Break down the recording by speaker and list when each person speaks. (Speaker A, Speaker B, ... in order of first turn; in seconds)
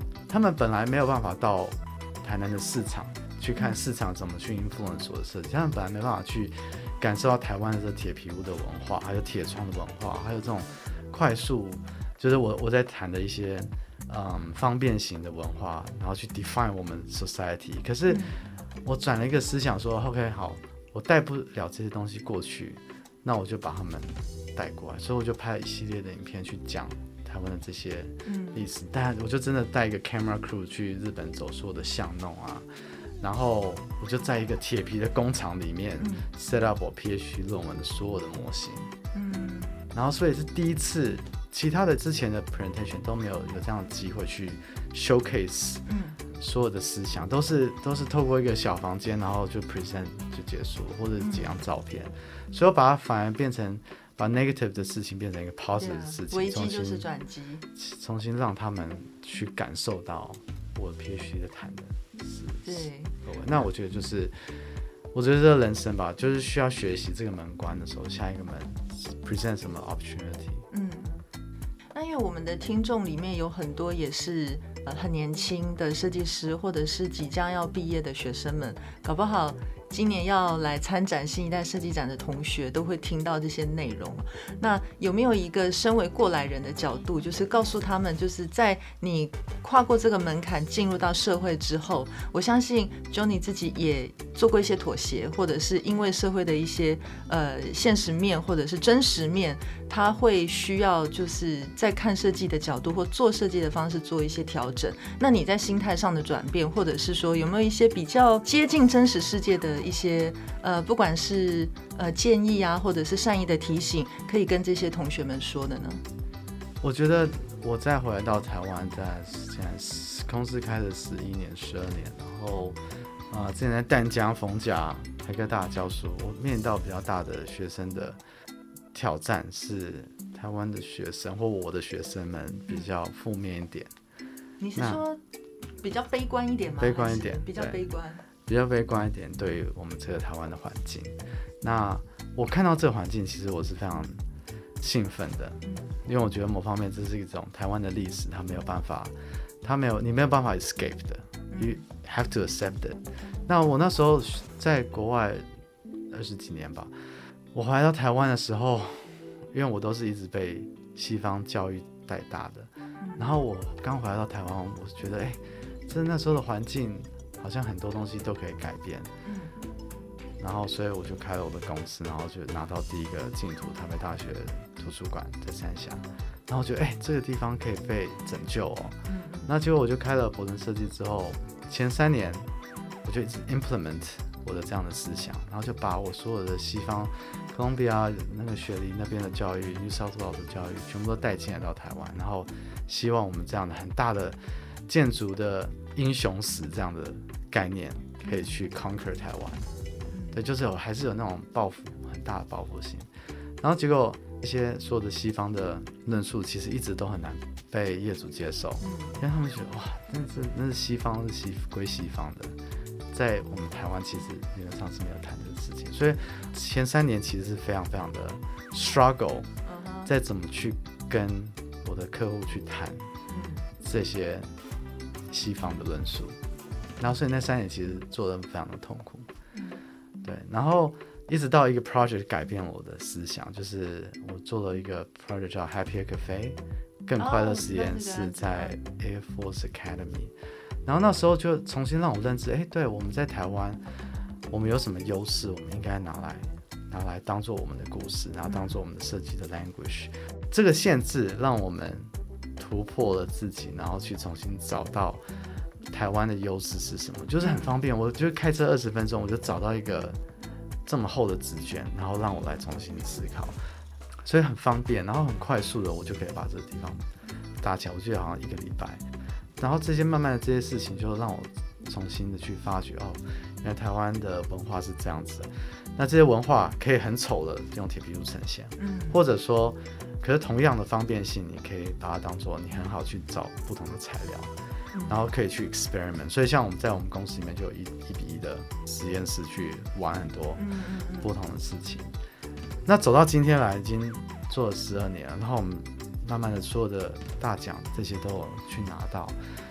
Speaker A: 0.3-18.3, 18.9-32.7, 33.2-38.9, 39.9-45.8, 46.4-57.1, 57.8-70.7, 116.8-122.8, 123.3-128.2, 128.9-133.9, 134.8-135.0, 136.8-137.9, 138.5-144.2, 144.8-155.5, 156.1-156.9, 157.5-169.1, 170.4-182.5, 183.1-199.7, 200.3-203.1, 203.6-212.6, 213.1-219.5, 220.1-223.1, 223.8-224.5, 225.3-226.4, 227.0-229.3, 230.2-240.3, 240.9-243.8, 244.5-255.2, 255.9-260.2, 260.9-263.6, 264.2-267.1, 267.6-269.0, 269.6-284.5, 285.1-290.6, 291.2-292.1, 292.9-299.4
Speaker B: 18.1-18.4, 28.2-28.6, 36.0-36.3, 39.1-39.7, 45.9-46.2, 51.2-51.5, 55.8-57.6, 62.6-63.1, 70.7-71.2, 71.9-116.0, 134.6-135.2, 135.8-138.2, 145.6-145.9, 151.5-151.8, 163.0-163.4, 169.2-169.6, 179.1-179.5, 200.1-200.4, 208.8-209.2, 219.7-220.1, 223.3-223.7, 229.5-229.8, 237.2-238.8, 248.5-248.8, 257.4-257.7, 278.8-279.2, 284.9-285.2, 290.6-291.3